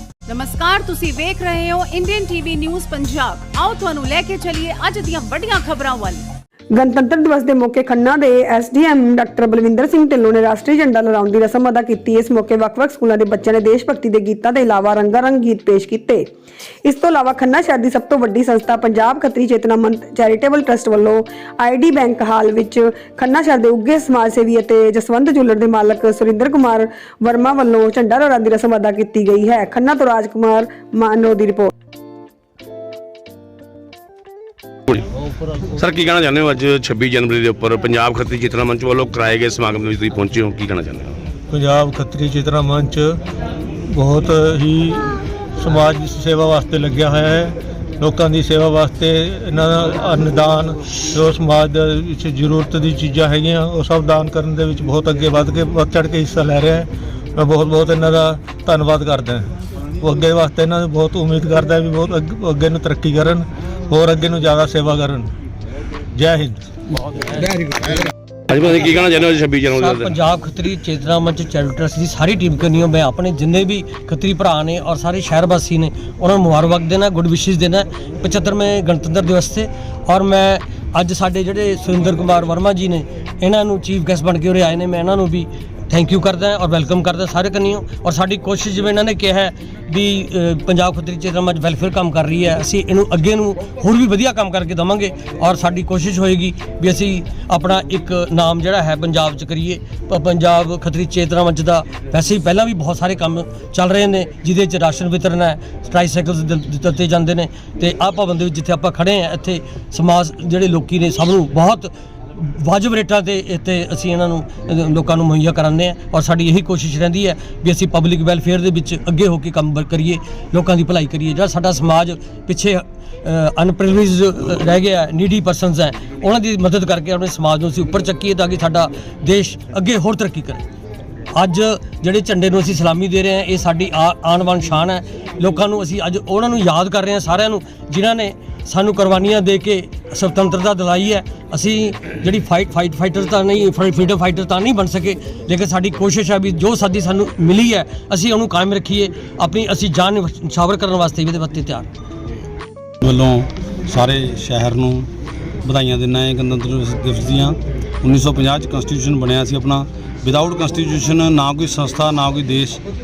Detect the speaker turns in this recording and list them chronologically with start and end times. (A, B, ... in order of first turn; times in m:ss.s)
0:00.3-0:06.2 A
0:06.7-0:16.3 B
0:16.8-0:31.7 B
0:35.8-0:41.2 C
0:41.5-0:43.2 D
0:43.9-1:05.3 D
1:06.2-1:06.6 D
1:08.5-1:10.1 C
1:09.7-2:10.6 E
2:11.3-2:31.9 E
2:33.0-2:35.1 F
2:35.6-2:42.8 F